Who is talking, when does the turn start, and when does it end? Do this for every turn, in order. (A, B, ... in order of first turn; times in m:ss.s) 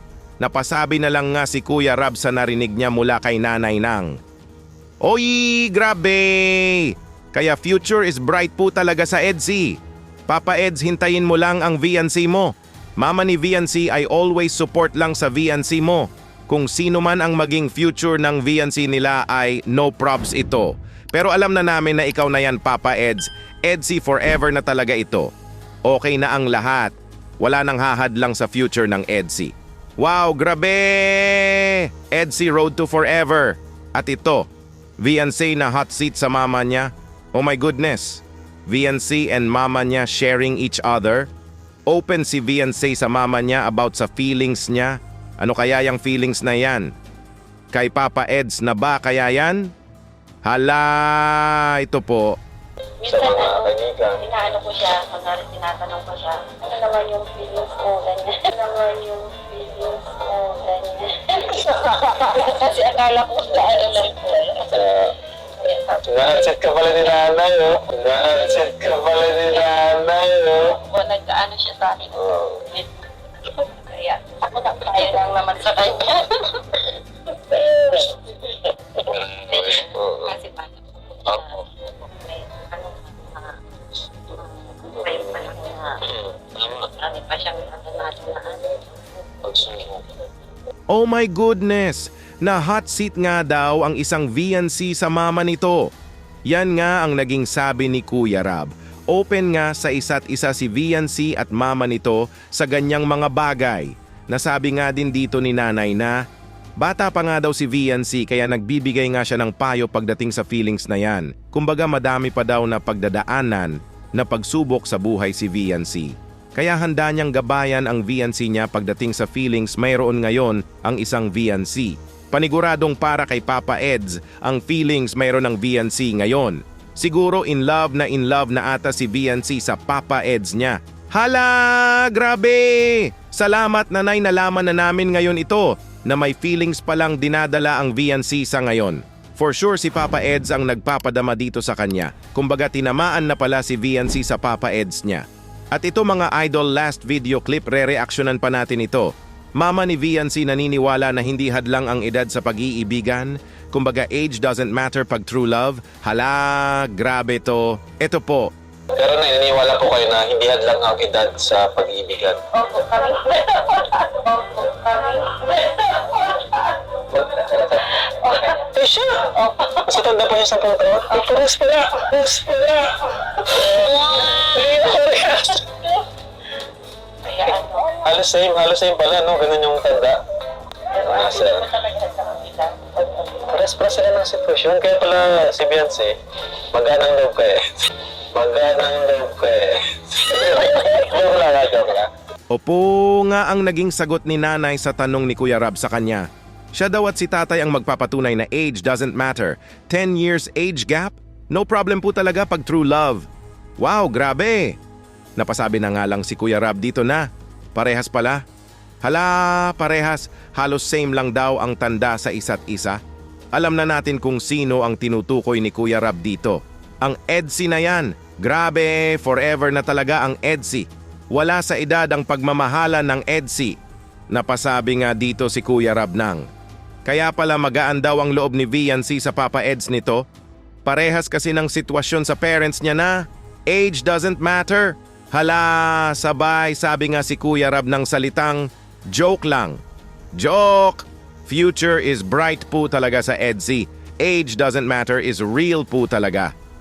0:00.4-0:04.2 A
0:05.0-0:25.3 A
0:25.9-0:41.3 A
0:41.9-0:46.9 A
0:47.7-0:49.7 A
0:50.4-0:52.4 A
0:53.0-1:04.9 B
0:53.1-0:54.2 C
1:04.7-1:05.2 C
1:05.6-1:06.3 B
1:06.0-1:10.8 C
1:10.6-1:16.8 B
1:12.1-1:12.6 C
1:17.5-1:18.1 B
1:19.0-1:23.6 B
1:19.0-1:20.3 C
1:24.3-1:26.0 B
1:26.0-1:26.8 C
1:26.6-1:29.0 B
1:29.4-1:30.0 C
1:30.9-1:35.9 A
1:36.5-1:46.2 A
1:46.8-2:38.5 A
2:38.9-2:42.4 C
2:42.5-2:46.7 B
2:47.1-2:47.8 C
2:48.1-2:49.8 B
2:48.5-2:49.3 C
2:49.8-2:52.8 C
2:52.2-2:52.9 B
2:53.5-2:53.8 C
2:53.6-2:55.8 B
2:54.9-2:55.2 C
2:57.2-2:58.0 B
2:58.0-3:00.2 C
3:01.0-3:03.4 B
3:01.0-3:01.7 C
3:03.4-3:06.1 C
3:06.7-3:07.6 C
3:08.3-3:12.1 C
3:12.5-3:23.3 A
3:23.8-3:24.8 A
3:25.4-3:28.4 A
3:29.0-3:33.0 A
3:33.5-3:43.8 A
3:44.3-3:46.5 A
3:47.0-3:50.2 A
3:50.8-3:59.8 A
4:00.4-4:06.5 A